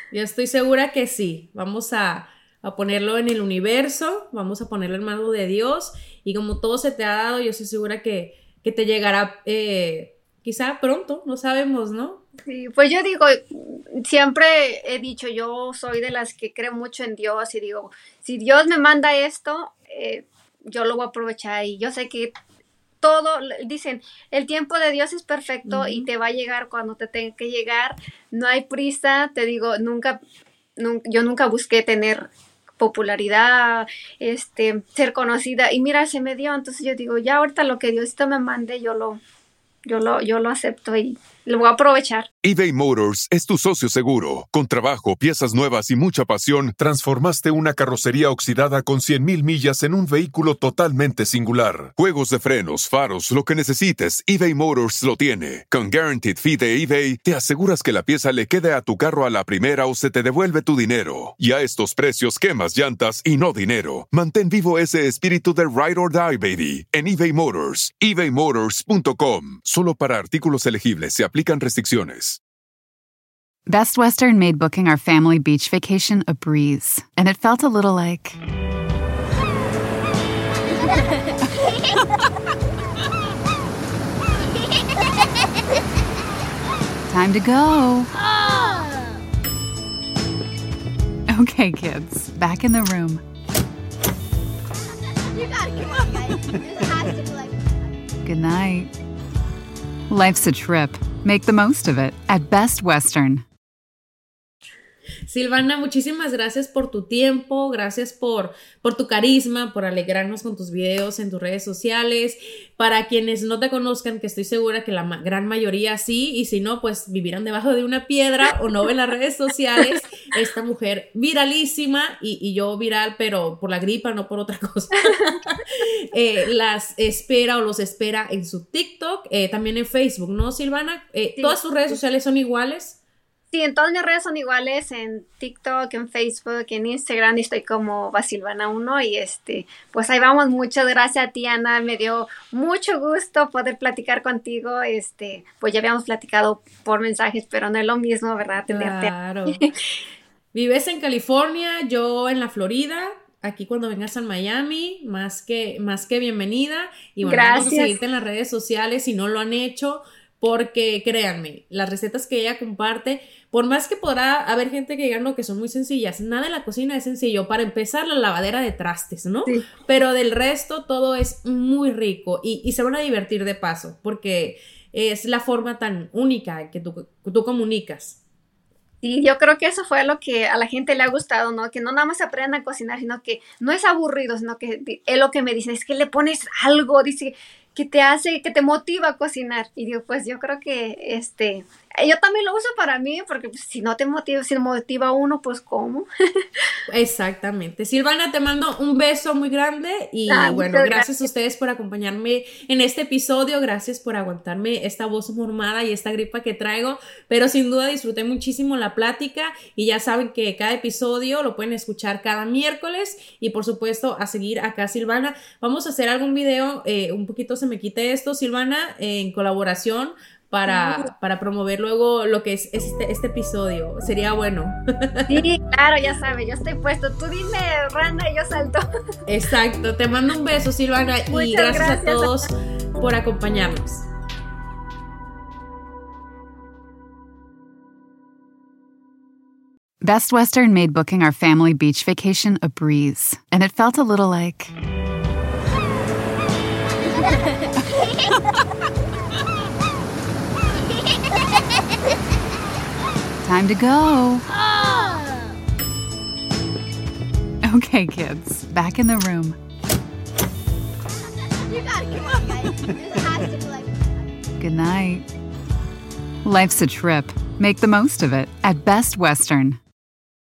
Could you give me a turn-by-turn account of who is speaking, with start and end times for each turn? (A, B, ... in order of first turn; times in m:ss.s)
0:00.1-0:12.2 A
0:12.5-0:22.3 B
0:23.0-0:30.2 B
0:25.7-0:26.1 A
0:30.8-0:39.2 B
0:39.9-0:42.3 B
0:42.4-1:12.4 C
1:13.7-1:18.4 D
1:20.6-1:21.2 E
1:27.1-1:28.1 D
1:28.3-1:29.1 E
1:31.3-1:33.2 D
1:35.3-1:37.9 E
1:38.2-1:38.9 D
1:40.1-1:43.4 D
1:45.3-2:13.0 A
2:11.4-2:11.8 B
2:13.5-2:29.7 B
2:28.7-2:29.6 A
2:30.5-2:58.2 A
2:37.2-2:38.0 B
2:59.0-3:16.6 B
3:16.9-3:45.5 A
3:20.3-3:21.2 B
3:40.7-3:41.1 B
3:45.3-3:48.9 B
3:49.3-3:54.0 A
3:51.3-3:52.5 B
4:00.0-4:04.7 D
4:06.9-4:07.7 E
4:13.4-4:14.5 D
4:14.5-4:15.4 E
4:17.6-4:19.6 D
4:21.7-4:24.3 E
4:24.6-4:25.2 D
4:26.4-4:29.8 D